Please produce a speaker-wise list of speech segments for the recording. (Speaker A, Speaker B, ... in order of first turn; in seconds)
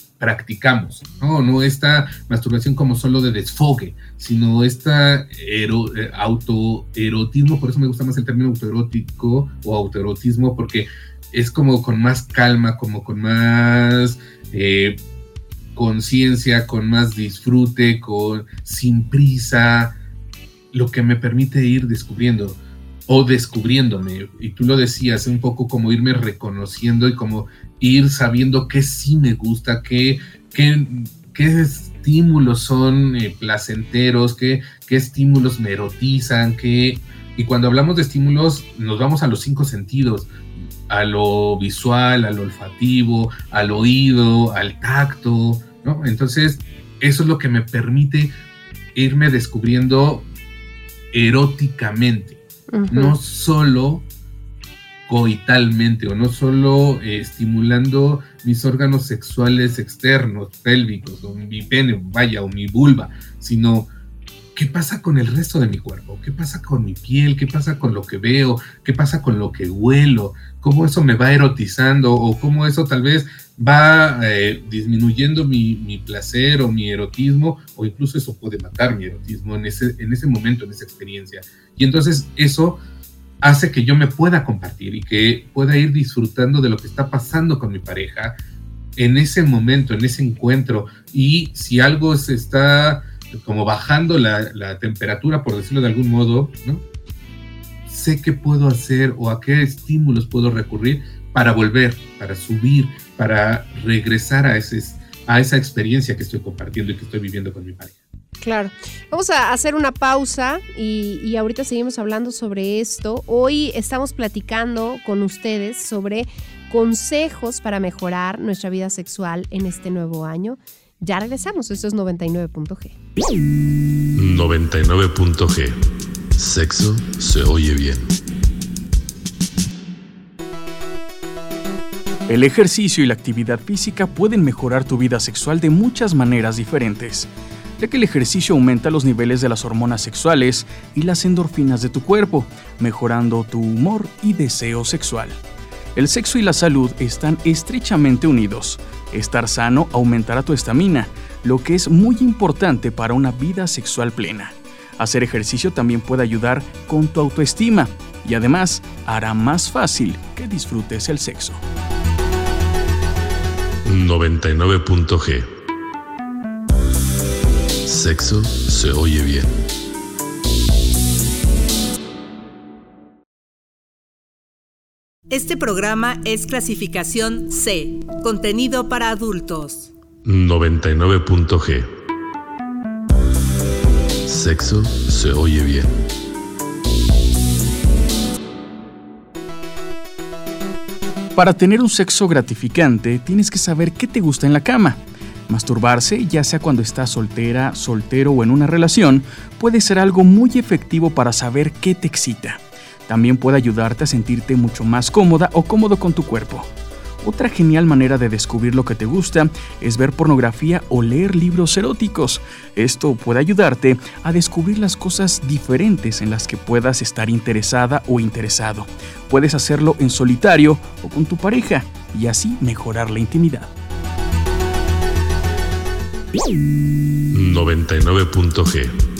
Speaker A: 0.2-15.0, 15.7-19.9, 20.7-40.3, 40.9-48.3, 48.9-50.3, 51.1-54.1, 55.0-63.9, 64.5-82.8, 83.4-88.4, 89.0-96.8, 97.8-108.0
Speaker B: 52.7-53.1, 108.4-122.9
Speaker C: 124.1-128.1, 163.8-165.5, 167.8-169.5, 180.2-181.9, 184.2-185.9, 227.3-229.0
Speaker D: 132.3-145.4, 145.9-161.6, 191.3-206.7, 207.2-223.7
Speaker E: 175.3-179.9